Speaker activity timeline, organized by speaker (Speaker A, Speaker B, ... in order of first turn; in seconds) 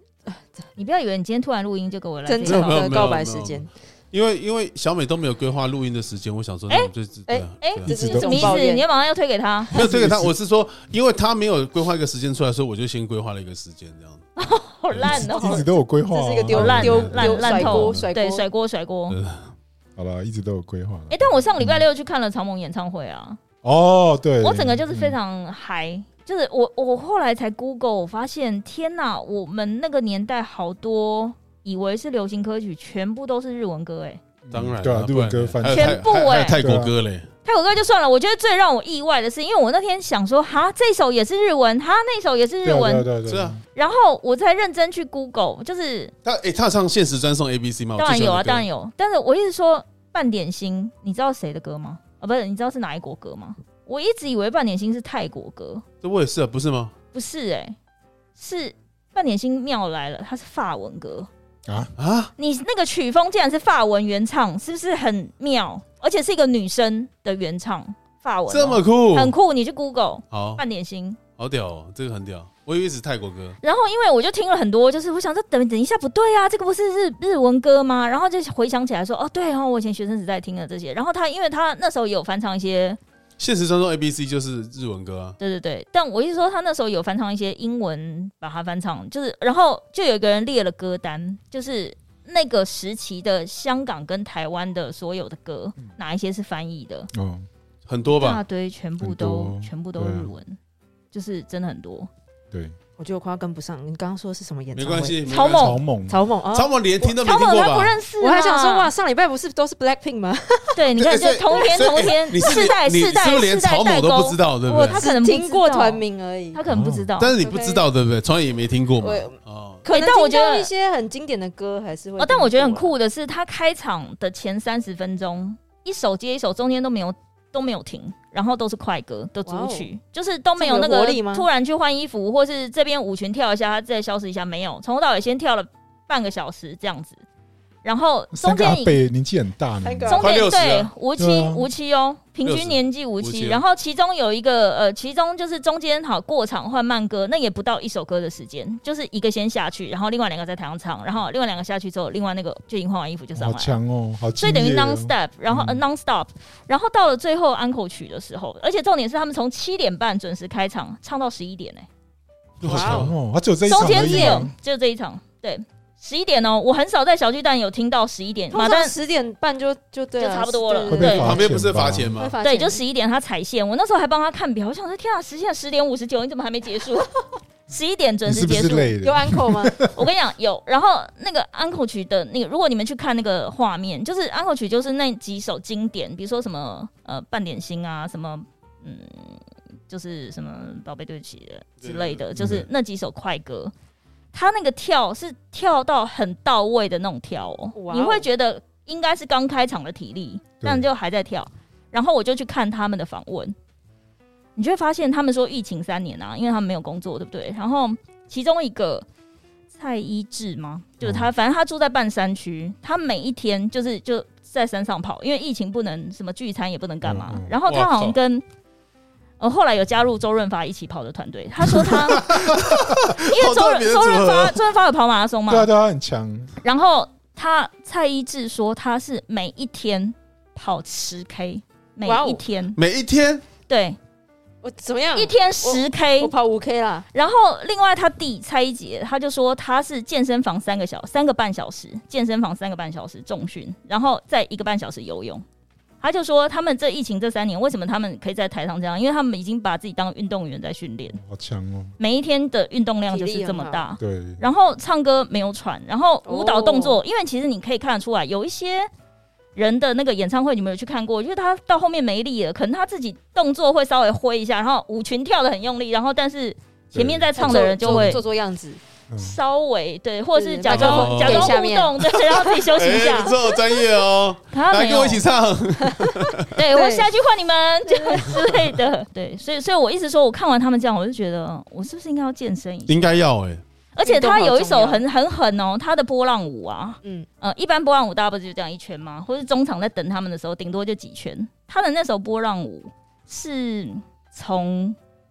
Speaker A: 0.3-0.6, 2.2-3.7, 7.3-8.8, 15.4-18.4, 103.0-105.2, 106.1-107.1, 108.2-110.8, 114.7-116.6, 117.4-117.9, 119.0-122.9, 129.4-129.9, 130.6-131.5, 139.8-140.4, 162.6-163.1, 163.7-164.4, 168.5-171.6, 172.1-172.8, 179.0-179.8, 197.7-198.3, 232.0-232.4, 234.6-237.1, 253.1-253.8, 256.2-257.0, 267.4-268.8, 270.4-273.8, 275.9-277.1, 277.9-278.4, 284.0-285.0
Speaker B: 0.8-3.1, 7.6-9.8, 14.4-15.7, 16.5-19.2, 21.1-23.4, 24.4-34.2, 35.7-36.6, 37.4-43.1, 43.7-46.1, 48.0-55.8, 57.1-57.8, 58.4-61.3, 62.4-71.2, 73.6-83.0, 85.4-97.1, 98.2-100.6, 101.1-102.1, 105.3-105.8, 107.2-108.9, 110.7-117.3, 119.9-120.7, 122.2-137.2, 137.8-139.0, 140.1-153.8, 154.4-161.9, 163.7-168.9, 170.2-171.4, 172.4-178.9, 179.9-193.7, 194.3-203.5, 204.6-209.0, 209.7-218.4, 219.4-222.4, 223.2-225.7, 226.6-232.8, 233.7-234.0, 235.1-236.3, 237.1-245.4, 246.0-251.2, 252.0-258.9, 259.6-268.2, 269.2-273.4, 274.5-275.2, 276.5-283.0, 283.9-295.0
Speaker C: 2.4-8.0, 9.7-14.2, 16.5-18.1, 19.1-19.5, 34.5-37.3, 43.2-43.6, 46.2-48.6, 56.0-56.9, 62.0-62.3, 68.5-69.3, 70.3-70.6, 71.4-73.6, 83.4-85.4, 97.9-98.4, 104.7-105.8, 106.5-108.0, 111.0-115.0, 117.2-119.8, 140.1-140.9, 142.4-143.6, 162.6-163.1, 171.0-172.3, 191.8-192.2, 217.7-218.2, 221.7-224.6, 232.8-233.4, 267.5-268.1, 270.7-271.6, 272.8-276.4, 282.9-283.6
Speaker D: 7.8-8.6, 9.7-10.3, 15.0-17.1, 19.9-21.9, 23.6-25.2, 34.4-36.9, 42.6-43.6, 61.6-61.9, 97.1-97.5, 99.0-100.3, 102.5-102.8, 105.5-106.2, 116.6-117.1, 138.3-140.2, 141.2-141.7, 153.3-155.8, 162.7-164.5, 170.9-172.1, 178.2-180.0, 192.3-192.7, 200.6-200.8, 211.0-211.3, 217.0-217.6, 225.5-226.5, 251.1-251.9, 254.0-254.4, 266.9-267.2, 269.1-269.4